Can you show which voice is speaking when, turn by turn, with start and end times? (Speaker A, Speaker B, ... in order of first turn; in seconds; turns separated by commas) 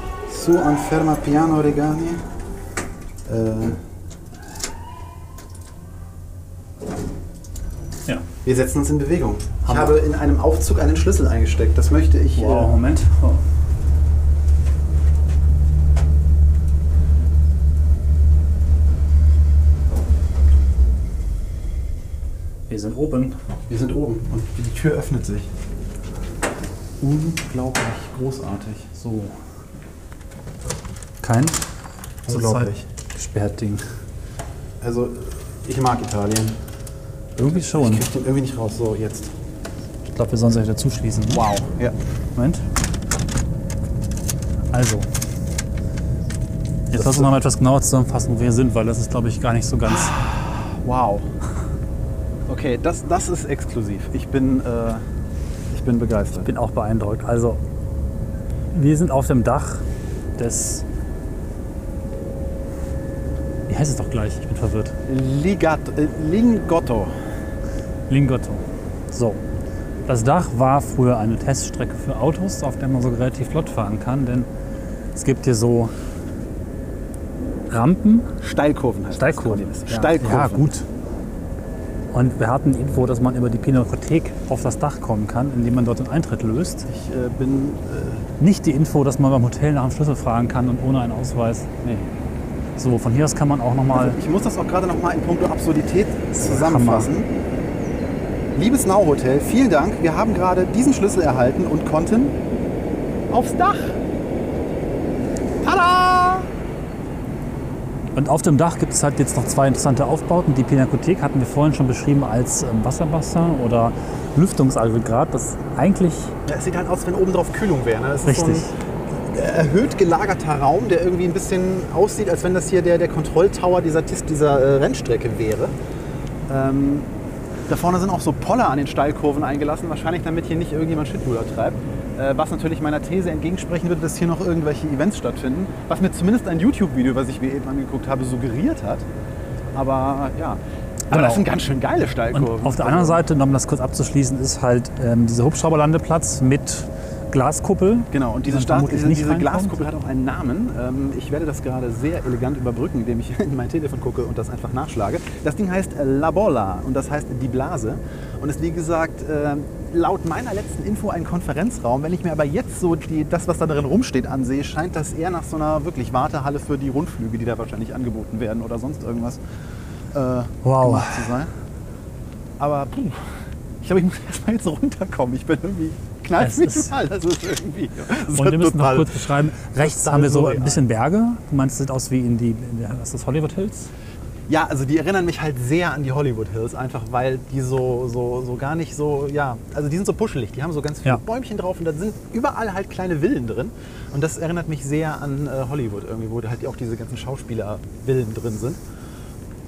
Speaker A: 0.3-2.2, Speaker A: 3.3-3.8, Speaker A: 8.4-12.8, Speaker B: 9.7-10.0, Speaker B: 12.4-13.4, Speaker B: 22.7-23.4, Speaker A: 23.7-25.5, Speaker A: 27.0-28.9, Speaker B: 28.9-29.4, Speaker B: 31.2-31.6, Speaker A: 32.3-32.8, Speaker B: 32.3-33.8, Speaker A: 34.8-36.6, Speaker B: 37.4-38.1, Speaker A: 37.5-39.4, Speaker B: 40.1-41.5, Speaker A: 41.3-42.0, Speaker B: 42.4-42.6, Speaker B: 44.7-45.1, Speaker B: 46.9-50.2, Speaker A: 46.9-47.3, Speaker A: 50.1-51.3, Speaker A: 52.5-55.0, Speaker A: 55.7-56.5, Speaker B: 56.4-57.6, Speaker B: 58.7-59.8, Speaker B: 60.4-60.9, Speaker B: 63.7-65.0, Speaker A: 65.1-67.2, Speaker B: 68.1-69.4, Speaker B: 70.1-74.5, Speaker B: 75.2-75.9, Speaker B: 77.7-78.3, Speaker A: 78.4-80.7, Speaker B: 79.1-80.9, Speaker B: 82.1-86.9, Speaker A: 86.9-88.3, Speaker B: 88.4-91.7, Speaker A: 91.8-92.1, Speaker B: 92.8-94.2, Speaker A: 93.9-97.3, Speaker B: 96.4-97.1, Speaker A: 98.5-102.4, Speaker A: 103.3-104.0, Speaker A: 105.6-106.5, Speaker B: 108.2-116.3, Speaker A: 116.5-125.8, Speaker B: 118.2-118.7, Speaker A: 126.5-127.1, Speaker A: 127.7-139.1, Speaker A: 139.7-143.2, Speaker B: 141.1-141.5, Speaker B: 142.3-149.8, Speaker A: 148.1-169.4, Speaker A: 170.1-171.5, Speaker B: 170.6-171.2, Speaker A: 172.6-173.2, Speaker A: 173.8-180.8, Speaker B: 176.4-176.9, Speaker B: 178.3-183.9, Speaker A: 184.5-198.8